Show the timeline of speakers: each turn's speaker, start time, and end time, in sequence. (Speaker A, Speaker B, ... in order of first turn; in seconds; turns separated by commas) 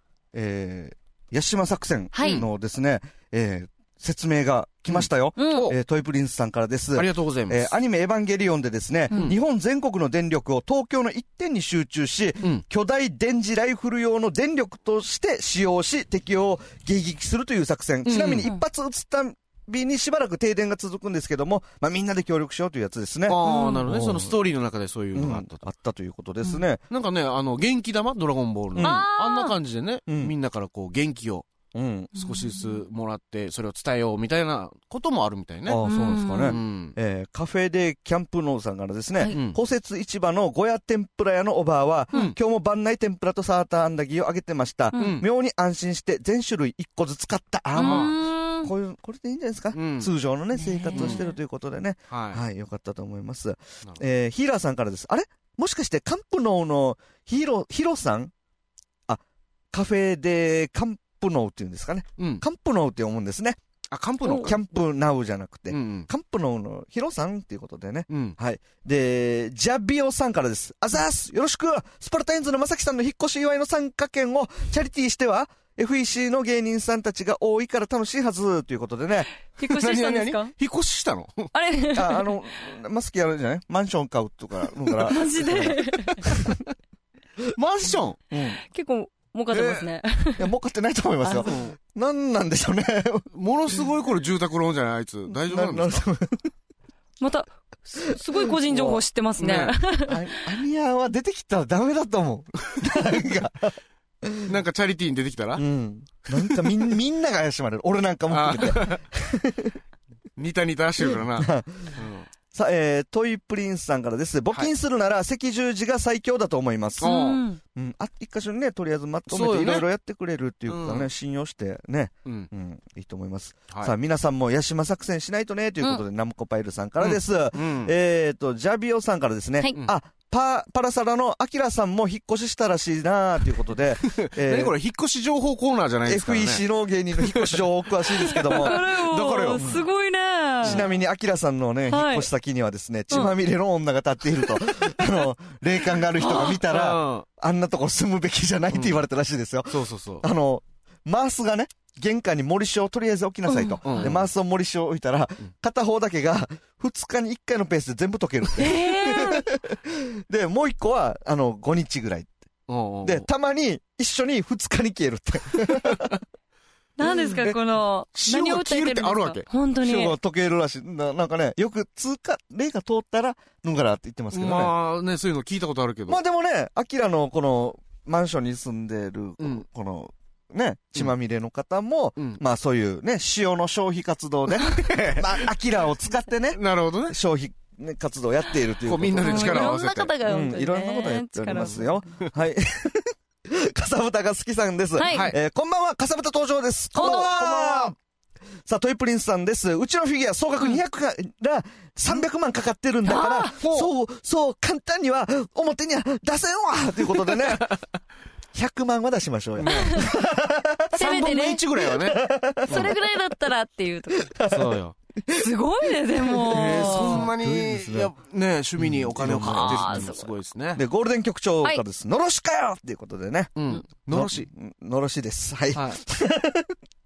Speaker A: 0.3-24.3, Speaker B: 2.1-2.4, Speaker C: 2.2-2.5, Speaker C: 4.9-5.7, Speaker B: 5.4-5.7, Speaker C: 6.9-7.7, Speaker C: 18.0-18.5, Speaker C: 23.3-25.6, Speaker B: 23.4-23.8, Speaker A: 25.1-26.8, Speaker C: 26.9-31.5, Speaker A: 28.7-29.0, Speaker B: 28.8-29.5, Speaker A: 30.1-30.3, Speaker A: 31.7-32.1, Speaker C: 32.1-35.8, Speaker B: 32.1-32.8, Speaker A: 35.6-58.3, Speaker B: 35.8-36.6, Speaker C: 36.4-36.9, Speaker C: 39.3-39.6, Speaker B: 44.9-45.2, Speaker C: 44.9-45.2, Speaker B: 47.7-48.7, Speaker C: 47.8-48.1, Speaker C: 49.7-50.1, Speaker B: 50.6-51.3, Speaker C: 50.9-51.2, Speaker C: 52.1-52.4, Speaker A: 59.7-63.6, Speaker C: 62.2-62.4, Speaker C: 63.9-64.6, Speaker B: 64.2-64.5, Speaker A: 64.3-79.3, Speaker C: 65.7-66.1, Speaker C: 68.1-68.3, Speaker B: 79.6-80.5, Speaker C: 79.7-81.5, Speaker B: 81.5-82.3, Speaker A: 81.9-86.6, Speaker B: 85.0-86.4, Speaker C: 87.5-88.2, Speaker A: 88.3-88.6, Speaker B: 88.6-90.5, Speaker C: 89.5-89.9, Speaker A: 90.4-93.8, Speaker C: 91.2-91.8, Speaker C: 93.3-96.0, Speaker A: 95.4-96.5, Speaker B: 97.2-100.3, Speaker A: 98.1-99.0, Speaker C: 99.4-99.7, Speaker A: 100.0-104.5, Speaker C: 104.4-105.6, Speaker A: 105.6-109.8, Speaker C: 106.3-106.7, Speaker C: 108.3-109.0, Speaker C: 110.3-112.3, Speaker A: 111.3-117.2, Speaker C: 117.0-117.4, Speaker B: 117.0-117.6, Speaker A: 117.7-134.7, Speaker C: 119.3-119.8, Speaker C: 120.7-121.1, Speaker C: 127.0-127.9, Speaker C: 134.1-139.8, Speaker A: 136.1-138.8, Speaker B: 138.4-140.8, Speaker A: 139.4-139.8, Speaker A: 140.6-162.4, Speaker B: 141.9-142.3, Speaker B: 146.2-146.6, Speaker C: 146.3-147.2, Speaker C: 148.7-149.0, Speaker C: 149.7-150.2, Speaker B: 153.5-154.1, Speaker C: 153.8-154.3, Speaker B: 158.6-159.5, Speaker C: 162.7-163.3, Speaker A: 163.0-166.2, Speaker C: 165.7-166.2, Speaker B: 167.0-170.1, Speaker C: 167.1-167.6, Speaker C: 168.1-169.4, Speaker A: 169.8-174.7, Speaker C: 174.3-176.2, Speaker A: 176.1-197.9, Speaker C: 179.4-179.6, Speaker C: 184.6-185.5, Speaker C: 186.5-187.2, Speaker C: 188.8-190.1, Speaker B: 189.2-192.0, Speaker C: 191.6-192.3, Speaker B: 194.9-195.3, Speaker C: 195.1-195.4, Speaker B: 196.9-197.8, Speaker C: 196.9-197.9, Speaker A: 198.7-207.8, Speaker B: 203.0-203.5, Speaker C: 203.6-203.9, Speaker C: 207.3-207.8, Speaker A: 208.5-211.1, Speaker C: 209.6-210.0, Speaker B: 209.7-210.1, Speaker B: 210.9-211.6, Speaker C: 210.9-212.9, Speaker A: 211.8-213.0, Speaker B: 212.7-214.3, Speaker A: 214.2-215.5, Speaker C: 214.5-214.9, Speaker B: 215.3-217.3, Speaker A: 216.2-218.1, Speaker C: 216.5-220.8, Speaker A: 218.8-220.1, Speaker B: 219.2-220.3, Speaker A: 220.8-226.7, Speaker C: 223.6-224.5, Speaker C: 225.7-226.0